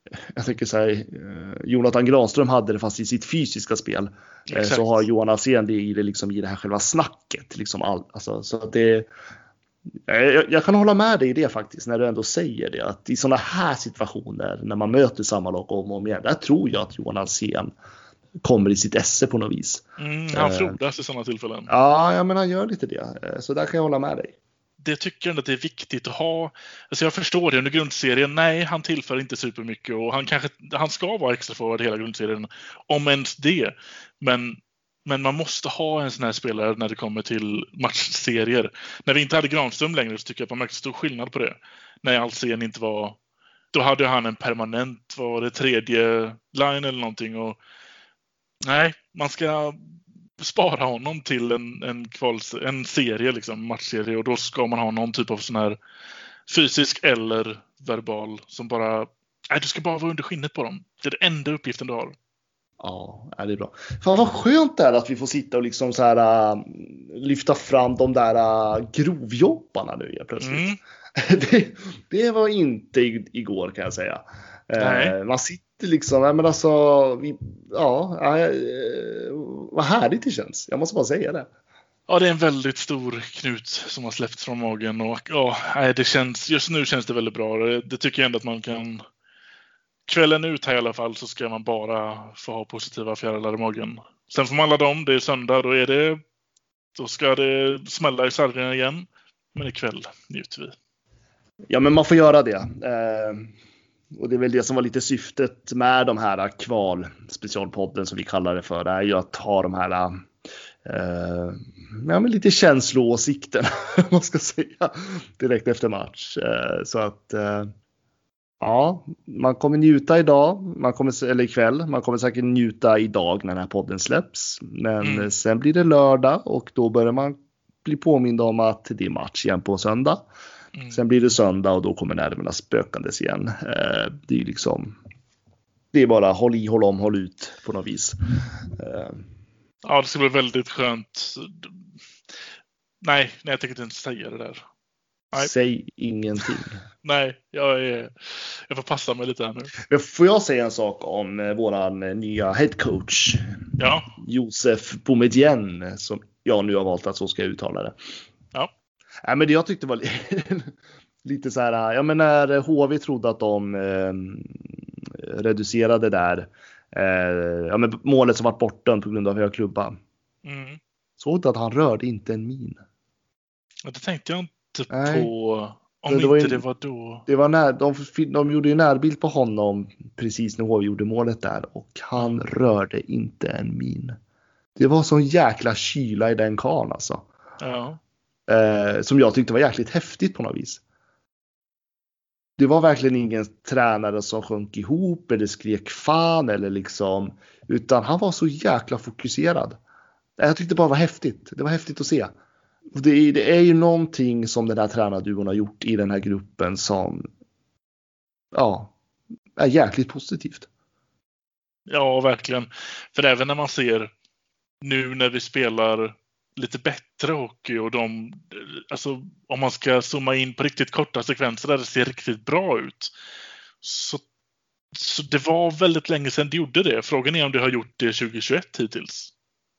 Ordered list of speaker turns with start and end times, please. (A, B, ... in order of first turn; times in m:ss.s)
0:00.3-0:09.1 A
0:04.5-0:04.9 B
0:10.1-0:17.7 A
0:18.4-0:20.8 A
0:20.0-0:21.7 B
0:21.7-0:24.4 A
0:24.8-0:43.2 B
0:43.7-0:47.6 B
0:48.6-0:55.8 B
0:56.5-1:02.2 B
1:02.8-1:21.5 A
1:10.4-1:10.8 B
1:14.8-1:15.2 B
1:22.1-1:29.0 B
1:30.1-1:36.2 B
1:37.0-1:40.8 B
1:41.7-1:43.5 A
1:44.1-1:50.2 A
1:50.8-1:57.7 A
1:58.6-2:10.2 A
2:05.0-2:05.3 B
2:10.9-2:15.0 A
2:15.9-2:18.2 A
2:18.8-2:19.2 A
2:19.8-2:21.8 B
2:23.0-2:24.6 B
2:25.3-2:26.8 A
2:27.0-2:29.7 B
2:29.8-2:33.6 A
2:33.8-2:34.1 B
2:34.1-2:38.0 A
2:39.2-2:40.7 A
2:41.2-2:50.0 A
2:50.4-2:50.8 B
2:51.2-2:52.8 A
2:53.8-2:57.2 B
2:54.9-2:55.3 A
2:56.1-2:56.6 A
2:57.3-3:04.2 A
3:02.2-3:02.4 B
3:04.8-3:07.3 A
3:07.6-3:08.0 B
3:08.5-3:10.8 A
3:12.6-3:19.8 A
3:20.4-3:22.3 A
3:22.9-3:27.2 A
3:28.5-3:28.9 A
3:29.6-3:30.7 A
3:31.9-3:34.1 B
3:34.8-3:43.1 B
3:43.8-3:44.2 B
3:44.9-3:49.3 B